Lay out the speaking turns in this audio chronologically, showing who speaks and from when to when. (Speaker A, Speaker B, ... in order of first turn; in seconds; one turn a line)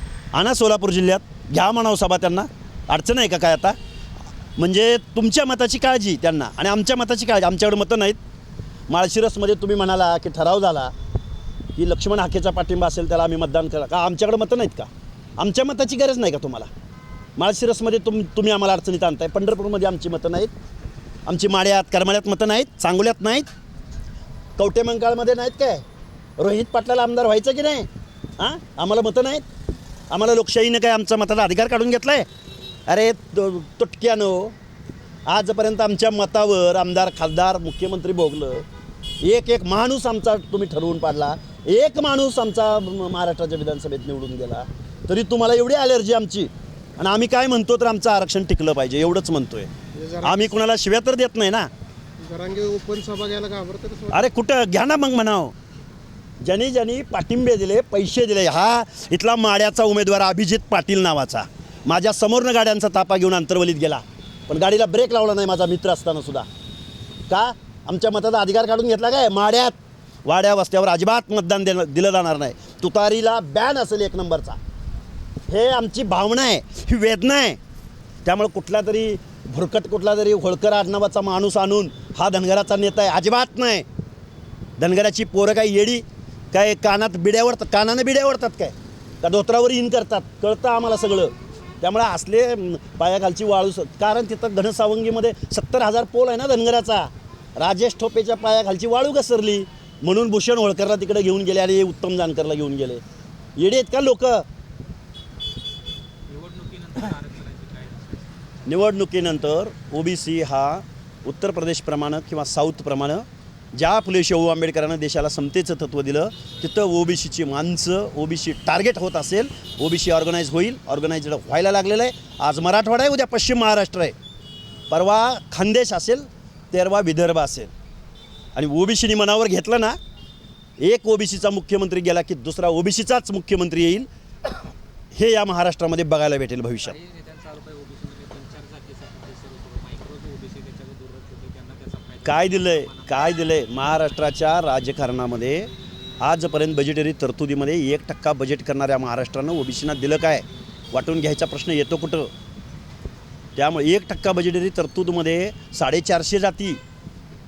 Speaker A: 0.3-3.8
Speaker A: 4.6-8.2
Speaker A: 8.9-10.9
Speaker A: 11.8-16.7
Speaker A: 17.4-20.5
Speaker A: 21.2-23.5
Speaker A: 24.6-25.8
Speaker A: 26.4-27.9
Speaker A: 28.4-29.4
Speaker A: 30.1-32.2
Speaker A: 32.9-34.5
Speaker A: 35.3-38.6
Speaker A: 39.2-49.7
Speaker B: 49.9-50.5
Speaker A: 50.2-51.7
Speaker B: 52.2-54.3
Speaker A: 54.1-55.5
Speaker A: 56.4-66.5
Speaker A: 67.3-74.6
Speaker A: 75.5-77.6
Speaker A: 78.2-83.8
Speaker A: 84.8-103.0
Speaker A: 103.6-104.4
Speaker C: 106.3-108.3
Speaker A: 108.7-124.1
Speaker A: 124.9-127.7
Speaker A: 128.5-130.0
Speaker A: 130.8-134.1
Speaker A: 135.1-136.9
Speaker C: 136.8-143.4
Speaker A: 142.2-145.7
Speaker A: 146.2-152.3
Speaker A: 153.6-156.8